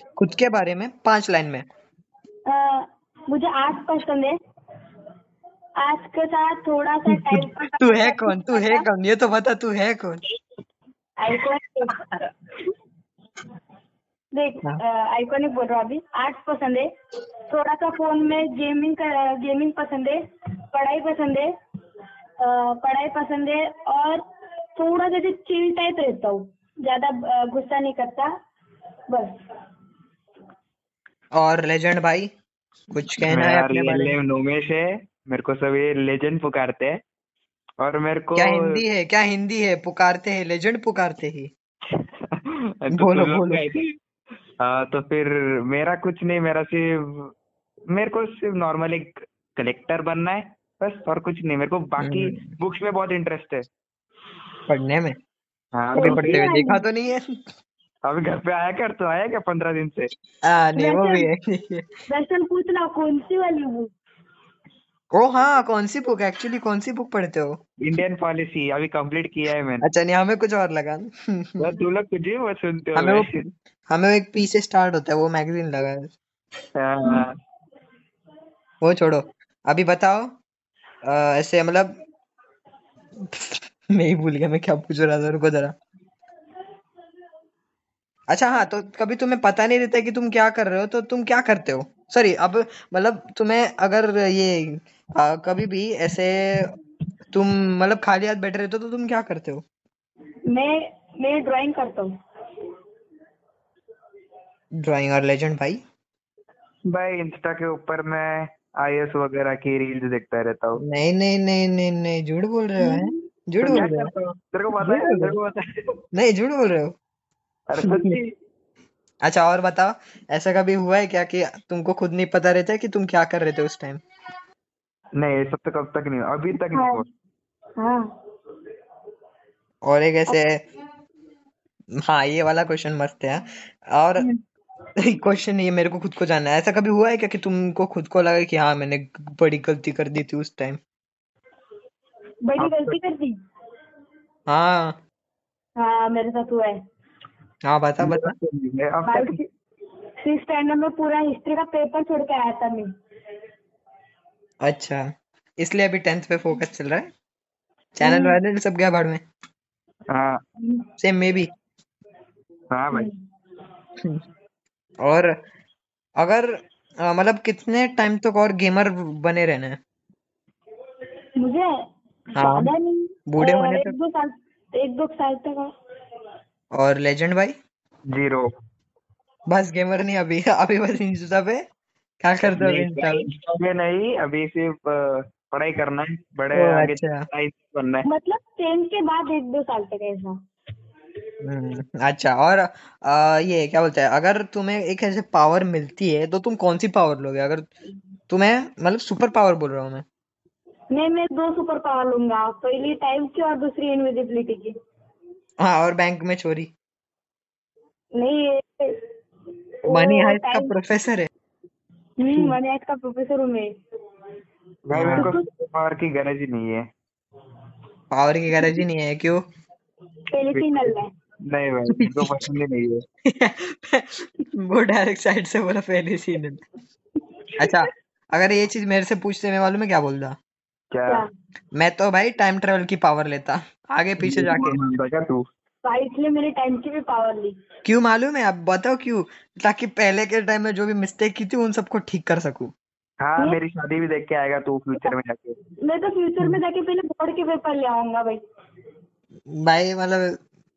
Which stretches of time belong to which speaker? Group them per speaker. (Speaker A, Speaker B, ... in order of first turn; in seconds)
Speaker A: 0.2-1.6, 7.1-10.2, 31.4-32.3, 32.9-34.1, 38.4-41.5, 42.9-43.6, 52.0-52.5, 54.7-55.2, 56.0-57.2, 60.5-61.9, 65.2-67.5, 69.8-71.7, 73.0-76.2, 78.8-80.3, 81.1-82.0, 83.3-85.7, 88.3-96.7, 97.3-99.6, 104.8-105.8, 110.8-114.1, 114.8-115.4, 116.1-117.0, 117.8-118.2, 119.2-124.0, 129.9-130.6, 132.1-134.3, 135.0-140.8, 144.5-145.0, 147.6-148.3, 154.6-155.1, 155.6-157.1, 158.0-159.2, 161.0-161.5, 165.1-165.3, 166.2-166.5, 167.1-169.8, 172.4-172.7, 173.3-173.9, 176.8-177.5, 179.5-181.6, 182.2-183.3, 186.6-187.2, 191.4-197.7, 198.3-200.0, 205.6-206.7, 209.9-211.3, 214.9-215.3, 218.1-219.4, 221.9-222.4, 223.3-226.6, 227.6-230.3, 231.8-234.8, 237.8-242.7, 249.6-250.3
Speaker B: 2.5-4.3, 5.8-8.8, 11.2-11.9, 14.3-16.9, 17.5-20.2, 20.7-21.5, 22.4-24.2, 24.8-28.3, 29.1-29.4, 56.0-56.9, 60.8-61.3, 62.1-63.9, 100.5-102.1, 112.8-113.2, 126.8-127.0, 142.4-143.3, 145.8-146.8, 149.1-149.5, 150.2-152.9, 158.0-158.4, 162.9-163.2, 171.4-171.7, 172.3-175.7, 188.1-190.3, 200.9-204.8, 208.2-209.0, 209.8-210.7, 212.2-213.7, 215.2-215.5, 220.3-221.1, 234.5-234.8, 235.8-237.6, 245.8-248.4
Speaker C: 33.3-37.0, 37.8-38.8, 42.0-43.8, 44.6-47.3, 47.9-53.7, 55.8-56.5, 58.1-60.1, 67.8-69.9, 71.6-73.2, 76.8-77.3, 106.9-110.8, 113.6-115.6, 117.7-118.3, 125.2-127.0, 142.6-143.0, 148.0-149.4, 160.1-160.4, 162.7-163.1, 178.1-178.5, 182.5-188.1, 214.9-216.8, 220.5-220.9, 221.5-223.0, 230.9-231.2, 234.2-235.4, 243.2-245.6